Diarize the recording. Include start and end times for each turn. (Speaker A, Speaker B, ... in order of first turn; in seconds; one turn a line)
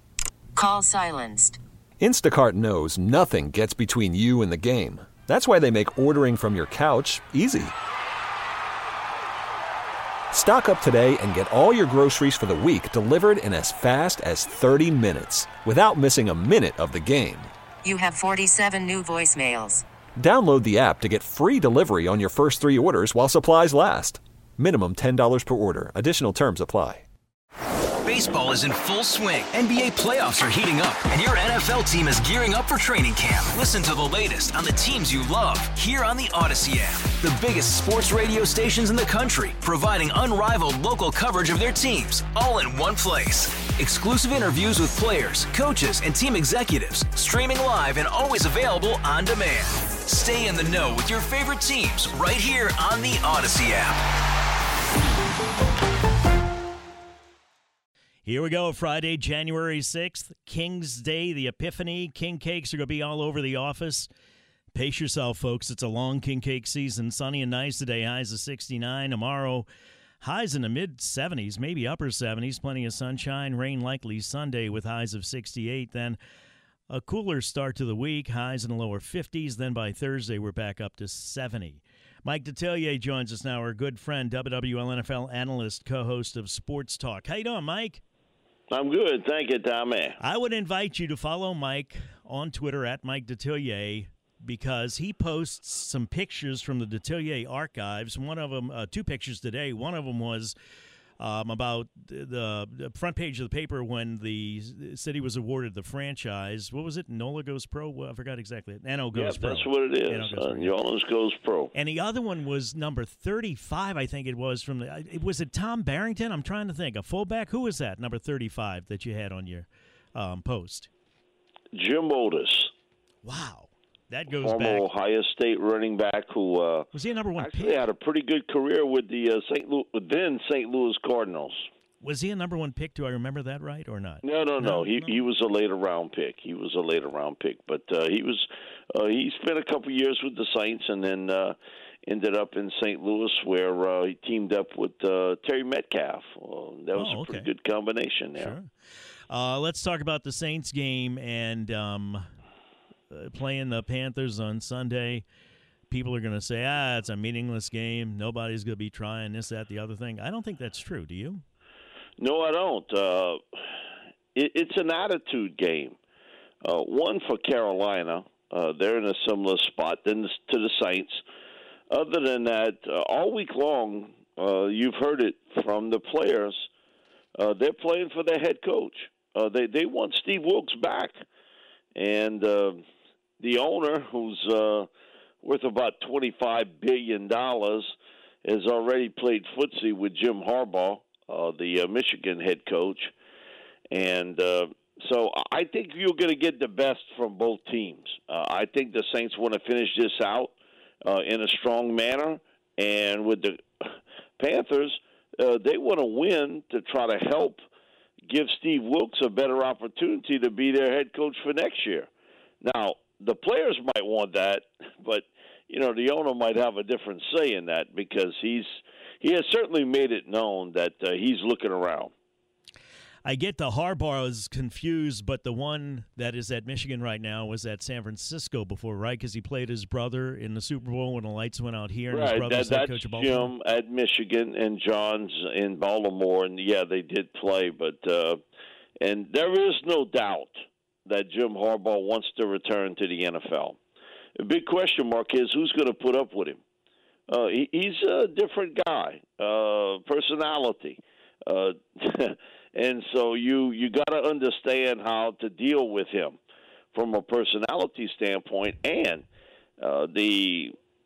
Speaker A: 0.6-1.6
Speaker B: 2.0-7.7
Speaker B: 10.3-17.5
Speaker A: 17.8-19.9
Speaker B: 20.2-27.1
Speaker C: 28.1-54.0
Speaker D: 58.2-64.1
Speaker D: 64.7-69.7
Speaker D: 70.2-76.2
Speaker D: 76.9-88.0
Speaker E: 88.7-90.2
Speaker D: 90.2-100.5
Speaker D: 101.2-110.7
Speaker E: 109.1-111.7
Speaker D: 111.7-120.9
Speaker E: 121.7-122.7
Speaker D: 123.2-124.8
Speaker E: 124.3-131.7
Speaker D: 126.9-127.8
Speaker D: 132.0-135.2
Speaker E: 134.2-148.5
Speaker D: 147.0-147.5
Speaker D: 148.4-148.7
Speaker D: 149.3-152.3
Speaker D: 153.1-155.2
Speaker D: 155.9-161.4
Speaker E: 162.2-163.6
Speaker E: 164.3-166.0
Speaker E: 166.6-171.2
Speaker E: 171.9-176.7
Speaker E: 177.3-181.2
Speaker E: 181.9-182.8
Speaker E: 183.4-184.9
Speaker E: 185.4-193.1
Speaker E: 193.9-207.6
Speaker E: 208.2-212.1
Speaker E: 212.6-222.1
Speaker D: 223.2-233.5
Speaker E: 232.1-238.4
Speaker E: 239.0-243.8
Speaker E: 244.4-246.6
Speaker E: 247.3-256.4
Speaker E: 256.9-259.3
Speaker E: 259.8-260.8